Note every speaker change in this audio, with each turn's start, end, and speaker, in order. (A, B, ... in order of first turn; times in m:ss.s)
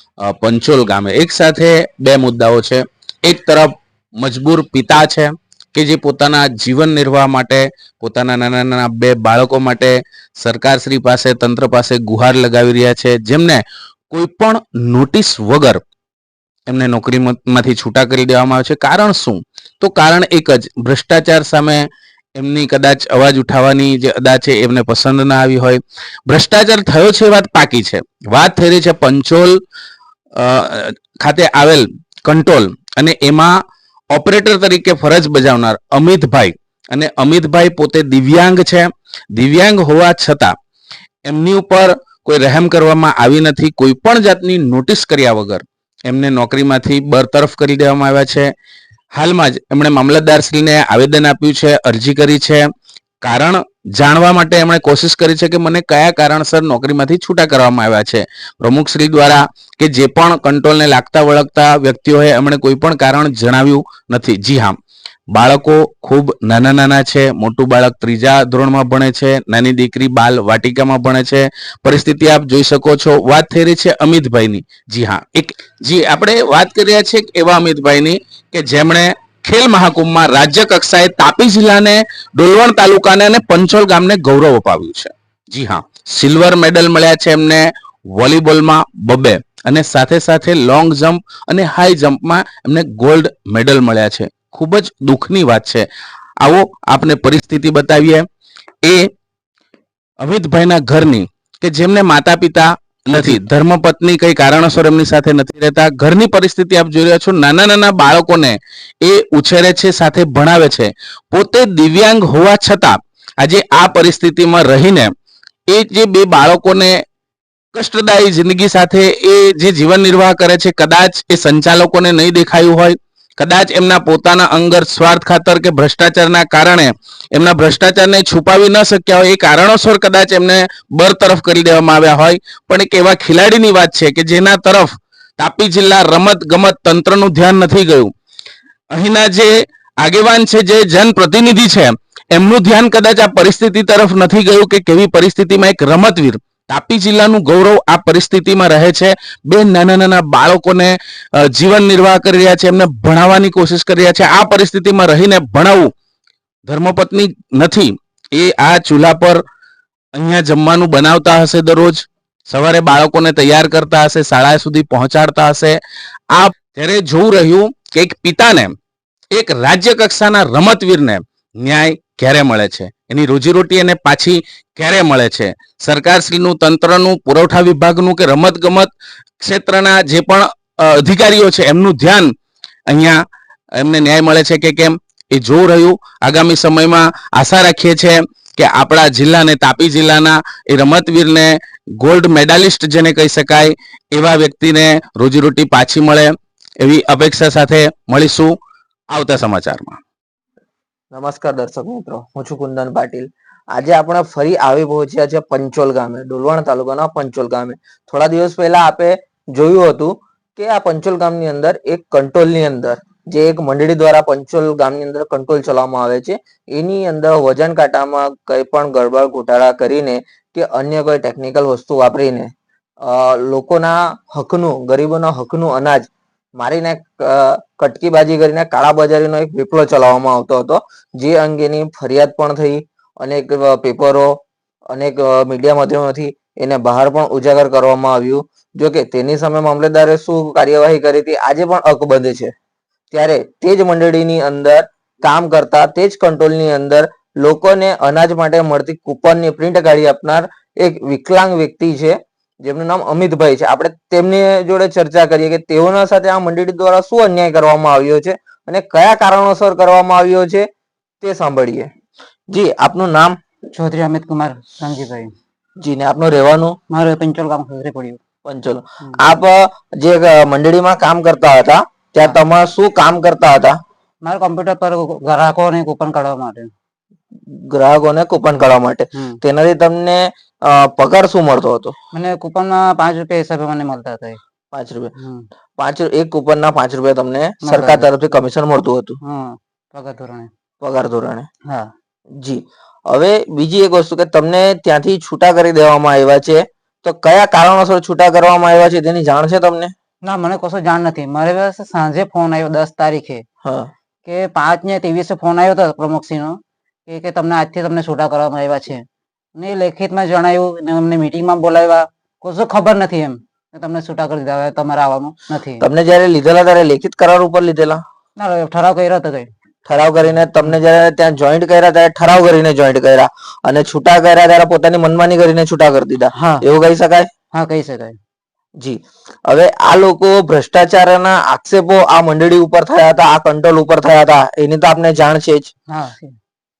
0:00.2-0:15.8 A
0:16.7-0:21.8 A
0:22.4-0:29.6 A
0:30.4-0:33.5 A
0:34.1-0:40.5 A
0:41.3-0:48.5 A
0:49.2-0:52.6 A
0:53.2-1:04.7 A
1:05.3-1:35.8 A
1:36.4-1:38.2 A
1:40.2-1:55.1 A
1:55.7-1:56.9 A
1:57.7-2:18.1 A
2:18.9-2:19.5 A
2:20.0-2:35.9 A
2:36.7-2:39.4 A
2:40.2-2:45.8 A
2:46.3-2:48.7 A
2:49.3-2:58.9 A
2:59.4-3:02.3 A
3:02.9-3:03.2 A
3:03.8-3:18.5 A
3:19.1-3:20.0 A
3:21.1-3:42.5 B
3:43.0-3:54.4 B
3:54.9-4:02.5 B
4:03.1-4:20.7 B
4:21.2-4:21.9 B
4:22.5-4:23.4 B
4:23.7-4:25.3 C
4:25.8-4:26.8 B
4:26.9-4:28.2 C
4:28.4-4:33.8 B
4:34.2-4:36.7 C
4:37.5-4:41.9 B
4:42.1-4:44.4 C
4:44.7-4:45.1 B
4:45.2-4:45.5 C
4:45.8-4:49.2 B
4:47.6-4:48.1 C
4:49.2-4:50.5 C
4:50.8-4:51.5 B
4:52.4-4:59.9 B
5:00.2-5:03.4 C
5:03.6-5:03.9 B
5:04.2-5:09.0 C
5:09.6-5:15.8 C
5:15.8-5:18.0 B
5:18.4-5:19.5 C
5:19.9-5:27.3 B
5:26.4-5:26.6 C
5:27.5-5:28.2 C
5:28.8-5:35.7 B
5:35.9-5:36.4 C